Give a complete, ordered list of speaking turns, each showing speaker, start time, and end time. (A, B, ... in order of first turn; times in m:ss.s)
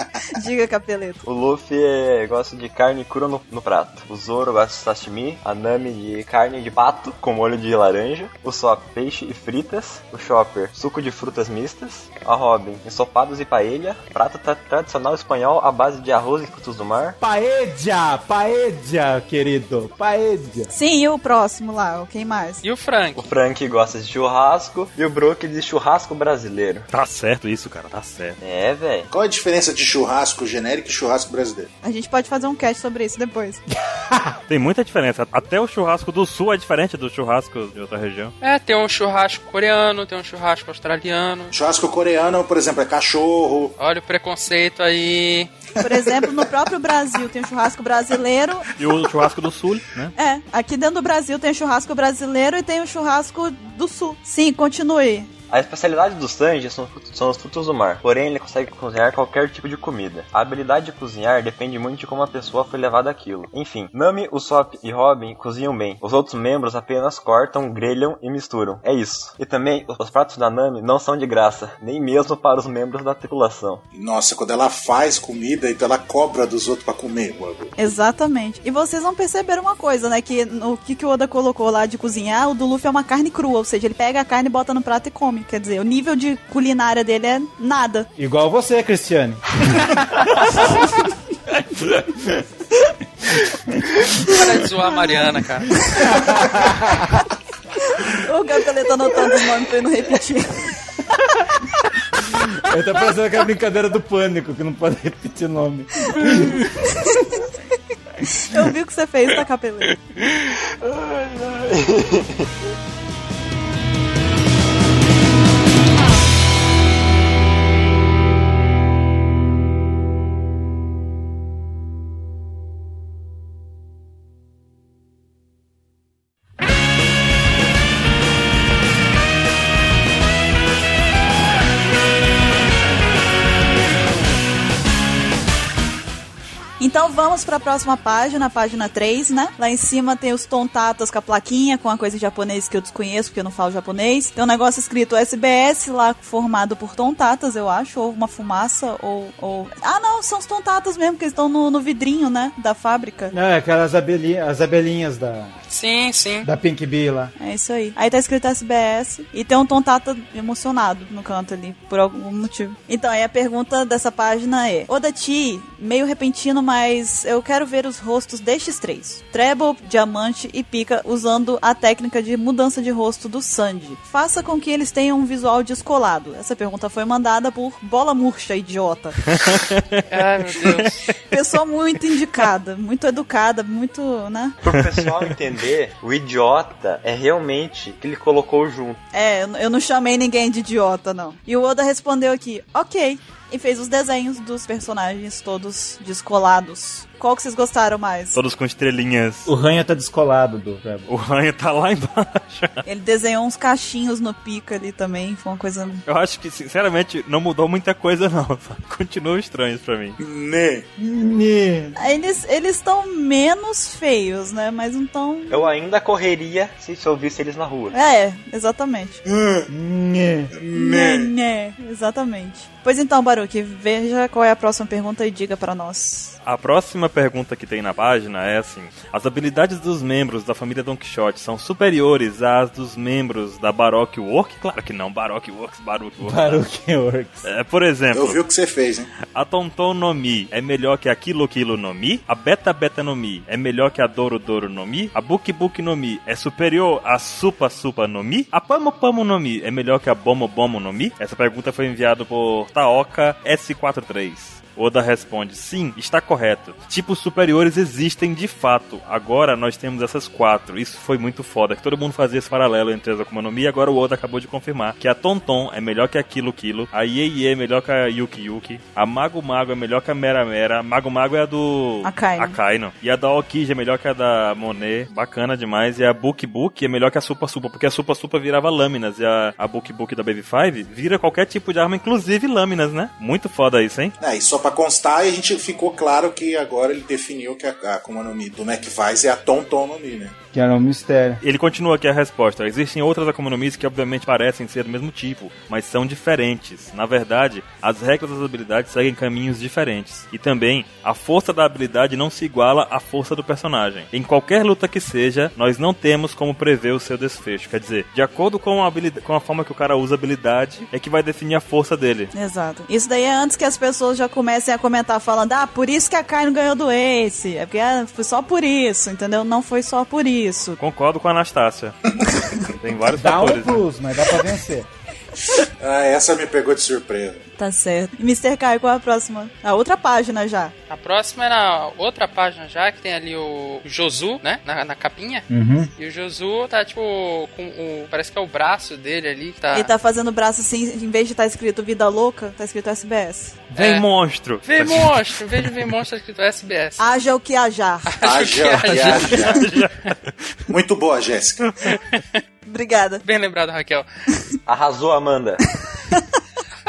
0:00.3-0:01.2 A
0:01.2-0:17.2 B
0:17.2-0:20.7 C
0:20.7-0:22.6 A
0:22.6-0:23.3 D
0:23.2-0:26.9 B
0:26.9-0:28.4 E
0:28.4-0:29.1 B
0:29.1-0:31.7 F
0:31.8-0:33.6 A
0:34.0-0:34.4 C
0:34.5-0:38.3 E
0:38.4-0:41.5 D
0:41.5-0:43.8 F
0:43.8-0:45.5 D
0:45.8-0:48.7 A
0:48.8-0:50.1 E
0:50.2-0:55.3 A
0:55.5-1:13.8 B
1:13.9-1:17.7 F
1:17.8-1:28.1 A
1:28.2-1:32.5 C
1:33.2-1:34.4 C
1:34.2-1:36.1 D
1:35.8-1:37.3 C
1:37.8-1:41.4 A
1:42.2-1:46.7 C
1:46.9-1:47.4 A
1:48.3-1:50.0 A
1:50.4-1:52.5 B
2:16.8-2:33.3 A
2:33.3-2:35.6 C
2:35.7-2:36.5 D
2:36.4-2:37.3 C
2:37.4-2:59.3 A
2:59.4-3:00.0 E
3:00.1-3:01.1 D
3:00.6-3:00.9 E
3:01.3-3:04.6 A
3:04.6-3:09.0 B
3:09.1-3:18.4 A
3:18.3-3:19.5 E
3:19.5-3:21.1 C
3:21.1-3:22.8 E
3:22.8-3:26.0 A
3:26.1-3:30.2 E
3:30.2-3:30.9 F
3:31.0-3:32.0 C
3:32.0-3:35.7 A
3:35.5-3:38.0 B
3:37.9-3:39.2 A
3:39.2-3:39.7 F
3:39.7-3:40.5 C
3:40.5-3:41.3 F
3:40.7-3:46.4 A
3:46.4-3:56.6 E
3:56.2-3:57.4 C
3:57.4-3:58.4 E
3:58.1-3:59.1 F
3:59.3-4:44.2 E
4:32.0-4:32.6 A
4:44.2-4:50.4 F
4:50.5-4:51.4 C
4:51.4-5:12.3 E
5:12.3-5:20.8 A
5:20.8-5:23.8 E
5:23.1-5:24.9 C
5:25.6-5:27.4 F
5:27.6-5:30.7 A
5:30.9-5:35.5 D
5:35.5-5:35.9 C
5:36.0-5:39.9 D
5:39.7-5:43.6 A
5:43.7-5:45.8 E
5:43.8-5:44.1 D
5:44.6-5:47.0 D
5:47.0-5:48.2 A
5:48.1-5:50.1 D
5:48.2-5:49.7 F
5:48.8-5:50.3 E
5:50.7-5:51.7 F
5:52.1-5:52.4 D
5:52.7-5:53.2 A
5:53.2-5:54.1 D
5:54.7-5:55.6 B
5:56.1-5:56.4 A